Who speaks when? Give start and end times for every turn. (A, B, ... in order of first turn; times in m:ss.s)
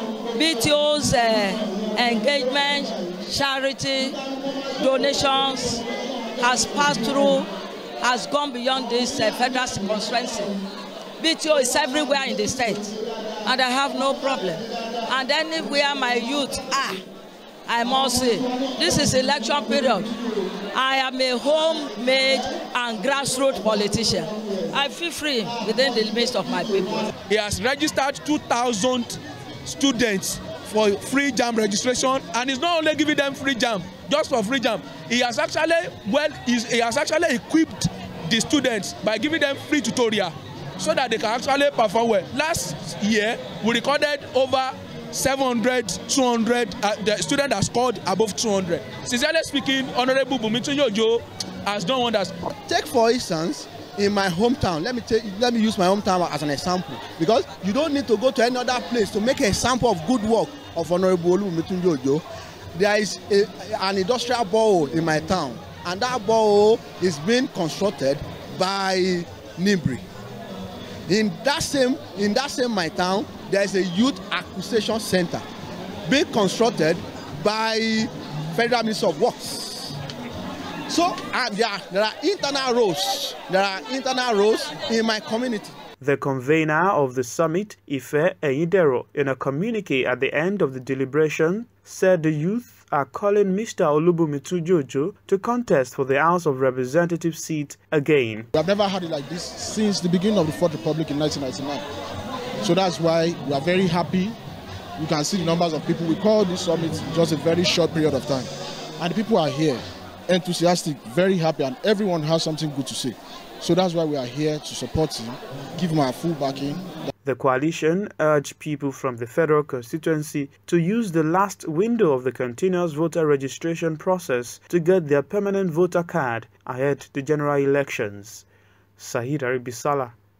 0:00.3-0:04.2 A
0:04.7-0:05.8 A
0:06.4-0:07.5 A
0:08.0-0:10.5 A
0:11.2-0:17.0 A
0:17.7-0:20.2 A
0:20.7-0:27.1 A
0:27.3-0:52.5 B
0:52.6-1:02.2 C
1:02.7-1:10.0 C
1:11.1-1:15.4 C
1:16.0-1:20.0 C
1:20.9-1:25.7 C
1:26.0-1:38.5 D
1:38.5-1:41.9 E
1:42.6-1:44.4 E
1:45.0-1:56.9 E
1:57.2-2:08.4 D
2:09.0-2:10.2 D